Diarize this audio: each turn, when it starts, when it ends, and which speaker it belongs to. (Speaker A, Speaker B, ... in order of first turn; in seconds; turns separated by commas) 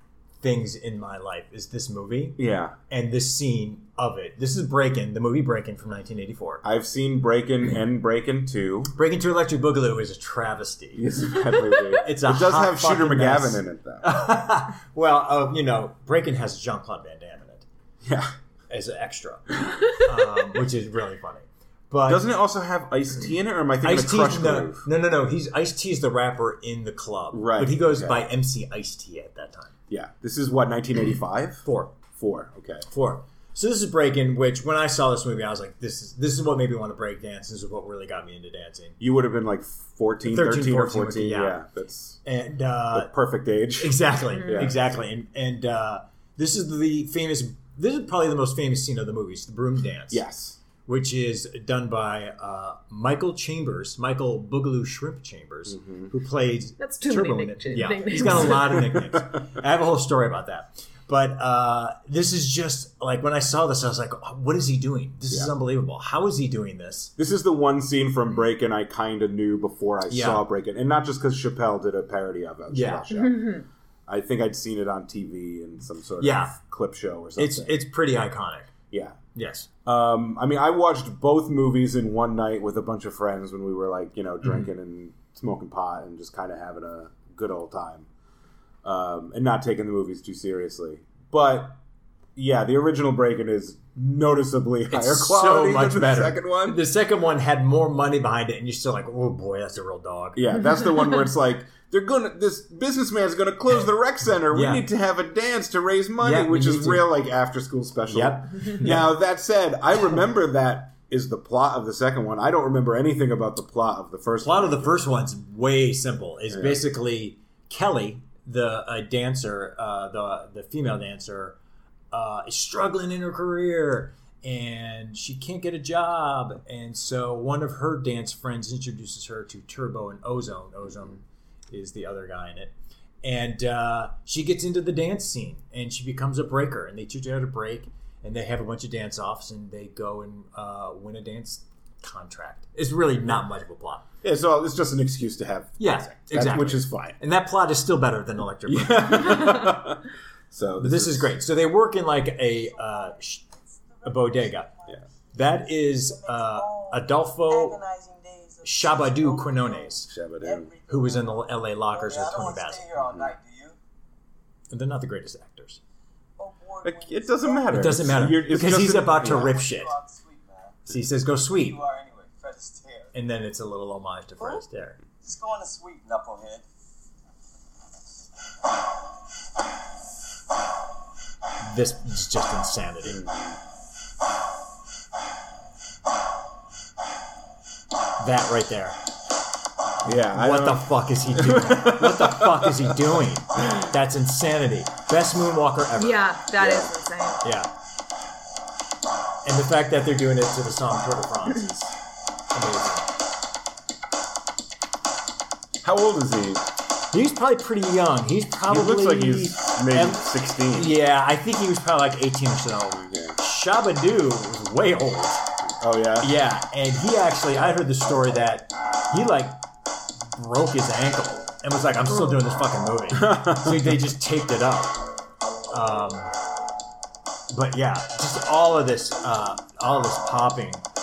Speaker A: 0.4-6.6, Speaker B: 2.4-2.8, Speaker B: 6.6-8.9, Speaker A: 8.9-11.1, Speaker B: 10.9-14.1, Speaker A: 12.0-17.7, Speaker B: 18.0-18.3, Speaker A: 18.7-22.2, Speaker B: 22.1-24.9, Speaker A: 23.8-29.7, Speaker B: 27.3-28.3, Speaker B: 29.9-32.9, Speaker A: 31.6-31.9, Speaker A: 32.9-39.0, Speaker B: 39.0-42.2, Speaker A: 40.2-41.6, Speaker A: 42.2-43.1, Speaker B: 42.9-44.8, Speaker A: 43.8-50.2, Speaker C: 44.3-44.7, Speaker B: 50.1-50.6, Speaker A: 50.8-67.1, Speaker B: 55.7-56.1, Speaker C: 56.8-58.7, Speaker B: 58.2-59.3, Speaker B: 67.2-77.8, Speaker A: 70.1-70.4, Speaker A: 72.7-73.1, Speaker C: 73.1-73.7, Speaker A: 76.2-76.5, Speaker A: 77.4-78.7, Speaker B: 78.9-79.2, Speaker A: 79.3-79.7, Speaker B: 79.8-88.1, Speaker A: 84.4-84.7, Speaker B: 88.8-91.8, Speaker B: 92.3-96.8, Speaker A: 94.9-100.5, Speaker B: 100.3-115.0, Speaker A: 104.5-104.8, Speaker A: 106.2-107.1, Speaker A: 108.1-109.2, Speaker A: 114.4-121.6, Speaker B: 116.5-116.8, Speaker A: 122.1-144.1, Speaker B: 144.2-147.2, Speaker A: 145.8-149.6, Speaker B: 148.7-151.3, Speaker A: 150.8-153.4, Speaker D: 152.6-163.8, Speaker A: 154.0-154.7, Speaker A: 155.3-157.8, Speaker A: 158.6-160.1, Speaker B: 160.1-160.7, Speaker A: 160.9-162.8, Speaker B: 162.9-163.3, Speaker A: 164.7-165.8, Speaker D: 166.4-167.9, Speaker B: 166.8-169.6, Speaker A: 167.7-169.9, Speaker D: 169.2-170.8, Speaker A: 170.9-171.8, Speaker D: 171.5-173.1, Speaker A: 173.1-175.0, Speaker D: 175.2-176.6, Speaker A: 181.6-183.2, Speaker B: 183.0-183.6, Speaker A: 188.2-189.0, Speaker B: 190.0-193.0, Speaker A: 190.1-196.2, Speaker C: 196.0-197.4, Speaker B: 196.6-196.9, Speaker A: 197.4-197.7, Speaker A: 199.4-201.9, Speaker A: 202.5-203.1, Speaker B: 205.8-206.7, Speaker A: 207.1-215.4, Speaker B: 208.7-210.9, Speaker B: 212.9-213.4, Speaker B: 215.8-216.3, Speaker A: 216.2-219.6, Speaker A: 220.3-225.0, Speaker C: 222.1-222.3, Speaker B: 223.1-224.0, Speaker A: 225.7-226.3, Speaker A: 227.5-230.8